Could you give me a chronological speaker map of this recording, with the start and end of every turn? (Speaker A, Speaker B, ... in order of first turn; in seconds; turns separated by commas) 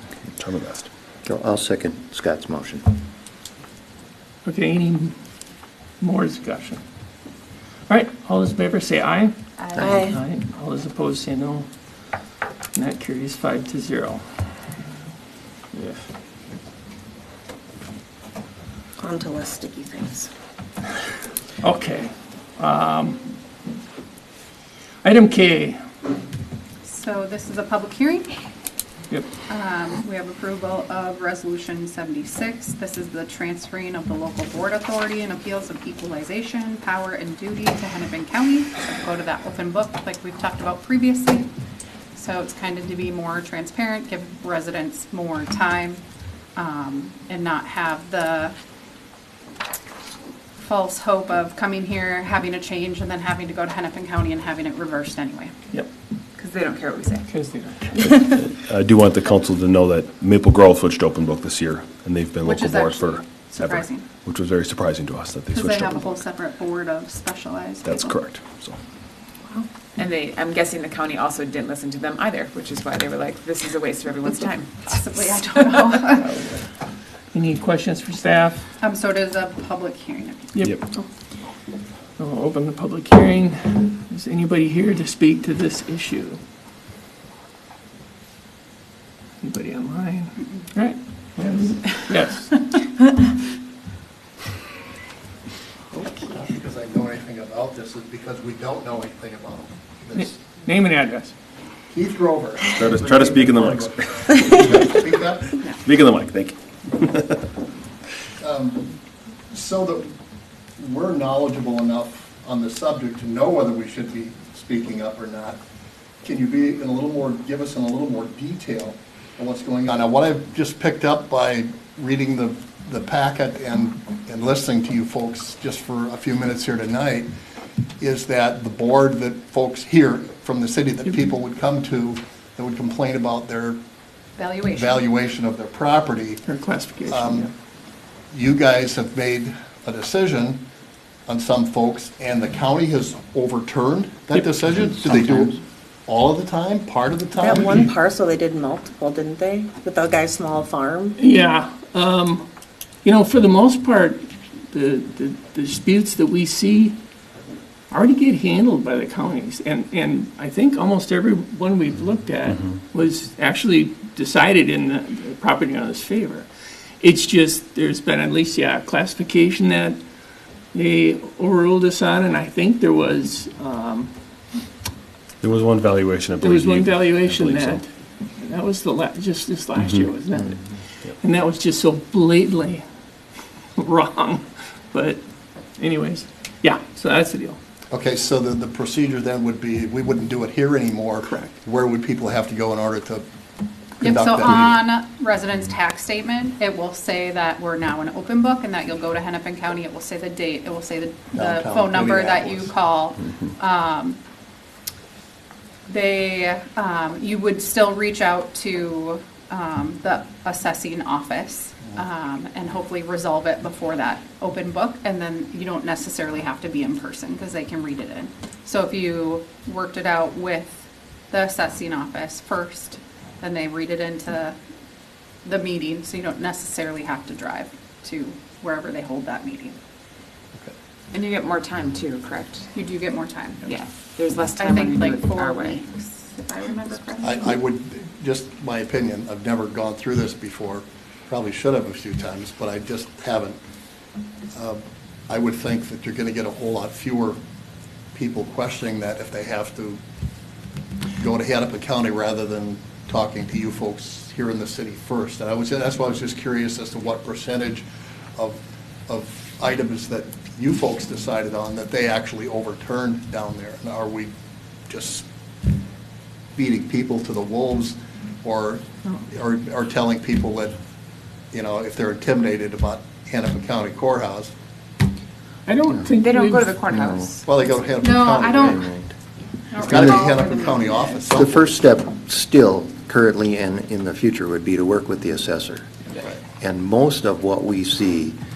Speaker A: 0.3-0.9, Speaker B: 1.2-3.0, Speaker C: 4.4-5.1, Speaker C: 6.0-6.8, Speaker C: 7.9-11.7, Speaker D: 9.8-10.2, Speaker C: 12.7-14.2, Speaker C: 15.7-16.0, Speaker D: 19.0-20.3, Speaker C: 21.6-23.3, Speaker C: 25.0-25.8, Speaker E: 26.8-28.3, Speaker E: 29.5-41.5, Speaker E: 42.1-46.0, Speaker E: 46.5-48.5, Speaker E: 50.6-55.5, Speaker F: 56.4-57.3, Speaker C: 57.3-58.0, Speaker A: 58.0-66.2, Speaker E: 62.4-64.0, Speaker E: 65.5-68.2, Speaker A: 67.8-68.8, Speaker F: 70.0-75.8, Speaker E: 74.8-76.3, Speaker C: 76.2-76.6, Speaker C: 77.3-78.6, Speaker E: 78.8-80.6, Speaker C: 82.2-86.4, Speaker C: 89.4-92.7, Speaker G: 95.9-100.4, Speaker C: 100.1-101.3, Speaker G: 101.9-105.6, Speaker A: 102.8-105.0, Speaker A: 105.8-107.4, Speaker G: 108.4-108.9, Speaker G: 109.5-110.1, Speaker G: 110.8-115.6, Speaker G: 116.2-127.3, Speaker G: 128.0-133.8, Speaker E: 134.4-135.0, Speaker G: 134.7-136.4, Speaker C: 136.4-137.5, Speaker G: 137.1-137.5, Speaker G: 138.3-140.6, Speaker G: 141.3-147.7, Speaker B: 144.7-145.6, Speaker D: 147.4-151.2, Speaker C: 151.2-152.4, Speaker C: 153.0-157.0, Speaker C: 157.9-166.5, Speaker C: 167.0-170.0, Speaker C: 170.7-174.1, Speaker A: 175.4-177.8, Speaker C: 176.4-177.9, Speaker C: 178.4-182.8, Speaker A: 179.8-180.1, Speaker C: 183.8-185.2, Speaker C: 185.8-187.6, Speaker G: 187.9-193.3, Speaker C: 191.2-191.5, Speaker G: 194.0-194.8, Speaker E: 194.0-204.2, Speaker G: 201.3-202.7, Speaker E: 205.9-224.6, Speaker E: 225.4-229.8, Speaker F: 231.1-232.7, Speaker E: 232.7-233.8, Speaker F: 233.6-235.8, Speaker E: 234.6-237.6, Speaker G: 237.2-243.6, Speaker G: 244.5-247.4, Speaker G: 248.1-250.0, Speaker G: 251.2-264.3, Speaker G: 264.9-265.3, Speaker G: 266.6-270.8, Speaker G: 271.5-274.5, Speaker C: 275.6-276.8, Speaker F: 276.2-277.4, Speaker B: 276.9-277.4, Speaker G: 277.4-278.9, Speaker E: 278.0-278.9, Speaker B: 278.6-279.1, Speaker E: 279.7-281.2, Speaker G: 279.8-281.9, Speaker B: 279.8-280.4, Speaker B: 281.3-286.0, Speaker B: 286.6-288.4